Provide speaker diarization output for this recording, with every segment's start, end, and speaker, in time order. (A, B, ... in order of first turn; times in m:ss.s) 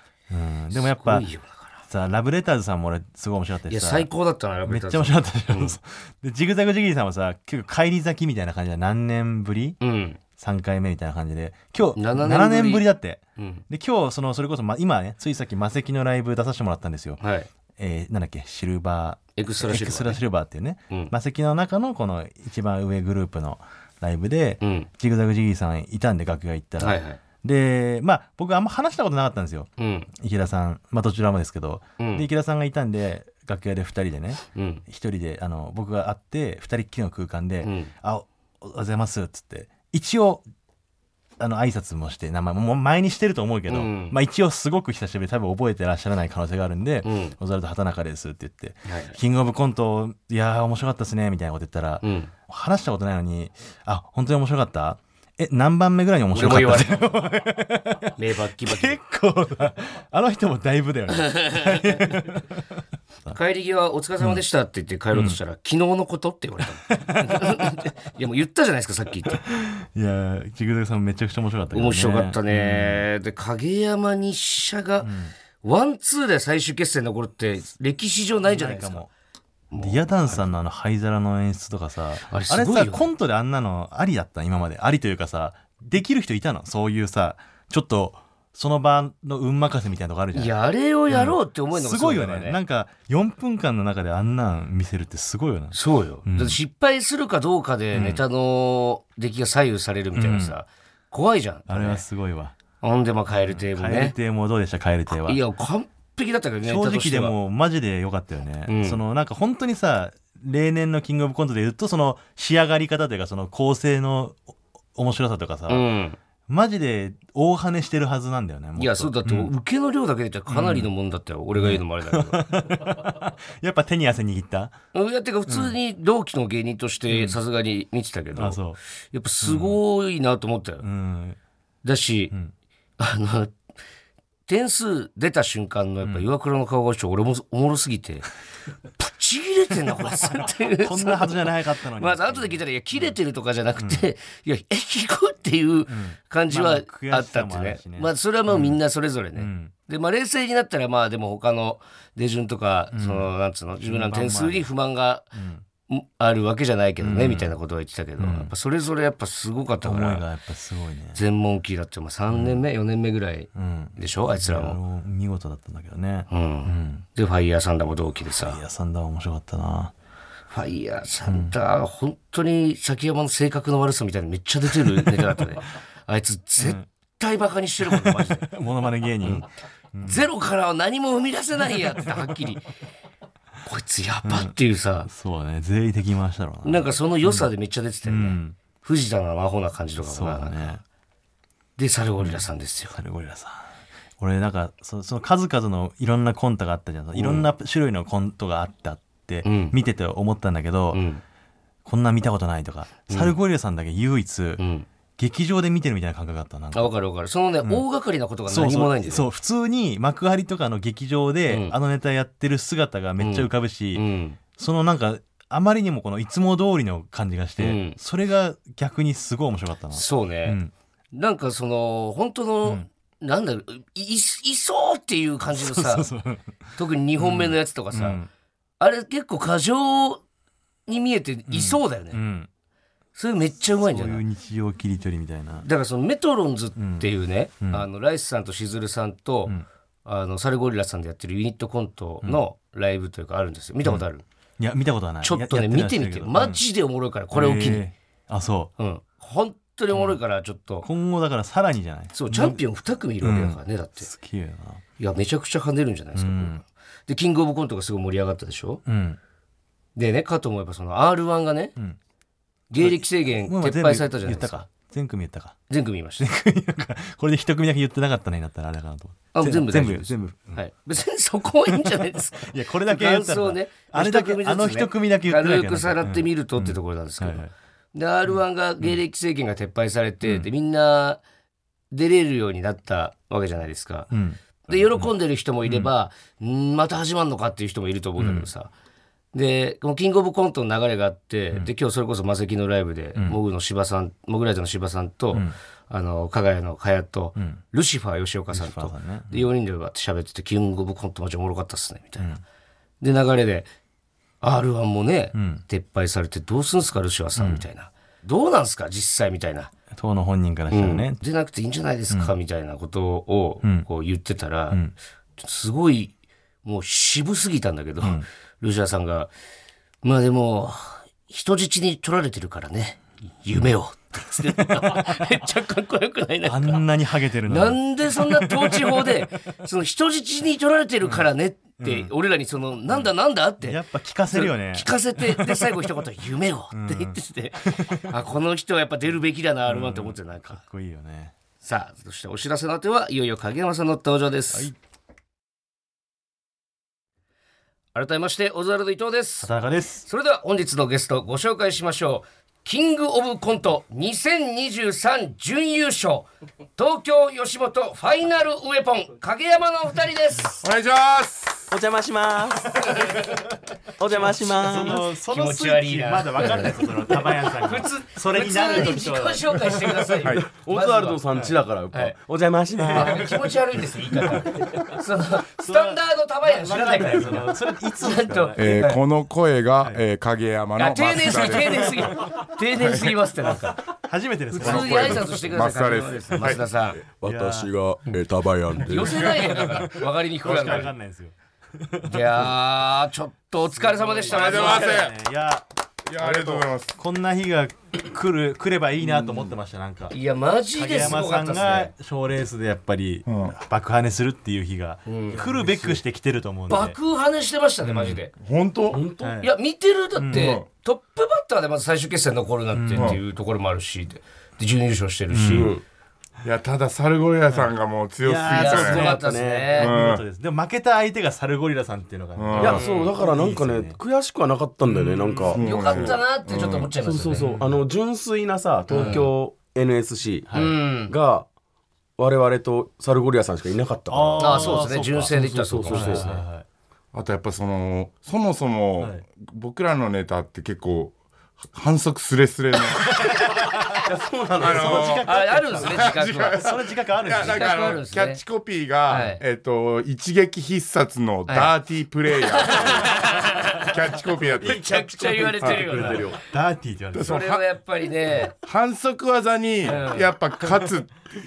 0:00.3-0:01.3 A
0:00.7-0:01.8 B
0:01.9-0:04.1 A
0:03.7-0:05.8 B
0:04.7-0:09.8 A
0:09.8-0:10.2 B
0:10.4-0:17.2 A
0:12.0-0:13.6 B
0:17.2-0:17.5 B
0:17.8-0:40.4 A
0:19.4-0:20.2 B
0:24.6-0:24.9 B
0:26.8-0:27.2 B
0:29.8-0:30.1 B
0:32.0-0:32.3 B
0:34.6-0:34.8 B
0:37.6-0:37.9 B
0:41.4-1:02.6 A
0:43.7-0:44.2 B
0:47.0-0:47.4 B
0:48.9-0:49.2 B
0:52.0-0:52.3 B
0:56.3-0:57.0 B
0:58.2-0:59.0 B
1:01.3-1:02.1 B
1:03.3-1:09.4 B
1:05.1-1:05.4 A
1:06.9-1:07.6 A
1:09.5-1:13.1 A
1:11.7-1:19.0 B
1:15.0-1:15.3 A
1:18.5-1:19.1 A
1:19.7-1:20.5 B
1:19.8-1:30.6 A
1:22.3-1:23.1 B
1:30.3-1:32.6 B
1:31.1-1:36.6 A
1:35.7-1:42.0 B
1:37.9-1:38.2 A
1:40.1-1:40.6 A
1:41.7-1:42.6 A
1:42.8-1:44.2 B
1:43.5-1:45.4 A
1:45.1-1:47.4 B
1:46.6-1:54.4 A
1:48.7-1:49.0 B
1:55.0-1:55.9 A
1:55.7-1:56.2 B
1:56.5-1:59.5 A
1:58.8-2:02.4 B
2:00.5-2:00.9 A
2:01.6-2:04.8 A
2:04.9-2:08.6 B
2:05.5-2:05.8 A
2:07.1-2:07.4 A
2:08.4-2:08.8 A
2:09.1-2:10.8 B
2:09.4-2:09.8 A
2:10.8-2:11.4 A
2:11.8-2:12.3 B
2:13.0-2:13.6 B
2:14.5-2:18.3 B
2:16.0-2:16.3 A
2:19.0-2:21.4 B
2:20.0-2:23.2 A
2:22.0-2:35.3 B
2:23.8-2:24.0 A
2:25.9-2:28.8 A
2:29.4-2:29.7 A
2:32.9-2:33.3 A
2:33.8-2:34.7 A
2:35.3-2:35.6 A
2:35.9-2:40.2 B
2:37.0-2:37.5 A
2:38.2-2:38.5 A
2:39.8-2:41.2 A
2:41.2-2:44.8 B
2:42.3-2:42.6 A
2:43.5-2:47.0 A
2:46.3-2:48.6 B
2:48.4-2:49.9 A
2:50.5-2:58.5 B
2:51.3-2:51.5 A
2:54.9-2:55.2 A
2:56.6-2:56.8 A
2:57.8-3:00.2 A
3:00.0-3:02.6 B
3:03.6-3:05.1 B
3:04.2-3:04.5 A
3:05.0-3:07.5 A
3:06.6-3:10.8 B
3:08.0-3:08.6 A
3:10.0-3:10.8 A
3:11.8-3:13.0 B
3:13.0-3:21.0 A
3:17.2-3:17.4 B
3:19.4-3:19.8 B
3:20.9-3:21.2 B
3:21.8-3:24.6 A
3:23.1-3:23.3 B
3:24.6-3:24.9 B
3:25.2-3:26.9 A
3:26.7-3:29.3 B
3:28.5-3:34.0 A
3:31.5-3:31.8 B
3:33.2-3:34.4 B
3:34.6-3:40.7 A
3:37.6-3:38.0 B
3:39.9-3:40.6 B
3:41.1-3:46.1 B
3:45.5-3:48.3 A
3:46.8-3:48.2 B
3:48.8-3:50.2 B
3:50.9-3:52.2 B
3:51.5-3:52.5 A
3:53.2-3:54.2 B
3:53.8-3:55.7 A
3:55.6-4:04.2 B
3:56.8-3:57.1 A
3:57.6-3:57.9 A
4:04.6-4:06.6 A
4:05.2-4:07.8 B
4:07.3-4:08.7 A
4:08.8-4:10.9 B
4:09.9-4:10.2 A
4:10.8-4:12.6 A
4:12.1-4:14.1 B
4:13.2-4:14.8 A
4:15.0-4:18.8 B
4:16.2-4:16.6 A
4:18.8-4:19.2 A
4:20.0-4:21.7 B
4:22.7-4:24.6 B
4:22.8-4:25.6 A
4:25.7-4:26.2 B
4:26.2-4:30.6 A
4:29.3-4:41.2 B
4:31.7-4:37.5 A
4:38.3-4:39.0 A
4:40.2-4:40.5 A
4:41.9-4:44.1 B
4:44.1-4:45.1 A
4:44.6-4:48.7 B
4:45.6-4:45.9 A
4:48.2-4:48.5 A
4:49.3-5:02.4 B
4:57.4-4:57.6 A
4:58.5-4:59.5 A
5:03.0-5:03.7 B
5:04.4-5:09.7 B
5:05.3-5:05.6 A
5:07.4-5:07.6 A
5:09.9-5:11.2 A
5:10.7-5:14.8 B
5:12.1-5:12.4 A
5:15.4-5:19.3 B
5:18.0-5:18.2 A
5:20.0-5:26.9 B
5:24.6-5:25.2 A
5:26.5-5:29.2 A
5:27.5-5:40.6 B
5:31.0-5:32.1 A
5:32.9-5:35.8 A
5:36.7-5:38.1 A
5:39.7-5:41.3 A
5:41.6-5:44.7 B
5:48.0-5:49.5 B
5:49.4-5:50.1 A
5:50.0-6:00.6 B
6:00.6-6:01.7 C
6:01.7-6:03.1 D
6:04.0-6:05.1 D
6:04.1-6:10.1 A
6:05.3-6:11.3 B
6:10.3-6:13.3 D
6:12.8-6:13.3 A
6:12.9-6:19.0 B
6:14.3-6:14.6 A
6:15.6-6:18.8 A
6:18.6-6:22.2 C
6:20.8-6:23.8 B
6:22.8-6:23.1 C
6:23.9-6:25.6 A
6:24.5-6:27.0 B
6:24.6-6:26.6 C
6:27.0-6:29.4 D
6:27.2-6:27.7 A
6:28.8-6:30.9 B
6:29.1-6:32.5 A
6:30.5-6:30.8 C
6:32.0-6:35.0 B
6:33.6-6:35.6 A
6:34.3-6:35.2 C
6:36.1-6:37.0 C
6:36.2-6:40.2 A
6:40.1-6:41.9 B
6:40.7-6:47.0 A
6:43.3-6:43.6 C
6:45.1-6:45.4 B
6:45.3-6:46.0 D
6:46.7-6:48.3 B
6:47.8-6:48.2 A
6:48.4-6:49.0 C
6:48.9-6:49.4 D
6:49.2-6:49.5 A
6:49.4-6:55.7 B
6:50.2-6:50.6 A
6:50.3-6:50.6 C
6:52.7-6:53.2 A
6:55.3-6:55.7 A
6:55.5-6:55.8 D
6:56.4-6:59.1 C
6:58.2-7:04.0 A
6:58.5-6:59.9 B
6:58.7-6:59.8 D
6:59.8-7:00.2 C
7:02.4-7:02.8 C
7:02.6-7:05.6 D
7:02.7-7:03.1 B
7:04.8-7:05.6 A
7:05.5-7:06.9 C
7:05.6-7:07.5 B
7:07.0-7:11.5 D
7:07.3-7:07.8 A
7:08.9-7:09.3 B
7:08.9-7:09.3 A
7:10.5-7:10.8 A
7:10.5-7:11.1 B
7:12.2-7:16.3 D
7:14.1-7:16.6 A
7:14.4-7:16.4 B
7:17.1-7:21.1 C
7:21.7-7:23.2 C
7:24.0-7:25.2 D
7:24.6-7:28.0 A
7:24.6-7:34.8 C
7:25.2-7:26.6 B
7:27.4-7:28.4 B
7:29.1-7:29.4 B
7:32.4-7:33.9 B
7:34.6-7:36.3 B
7:34.6-7:36.4 D
7:35.4-7:37.4 A
7:37.1-7:37.6 C
7:37.2-7:38.5 B
7:38.6-7:41.2 C
7:39.8-7:40.3 B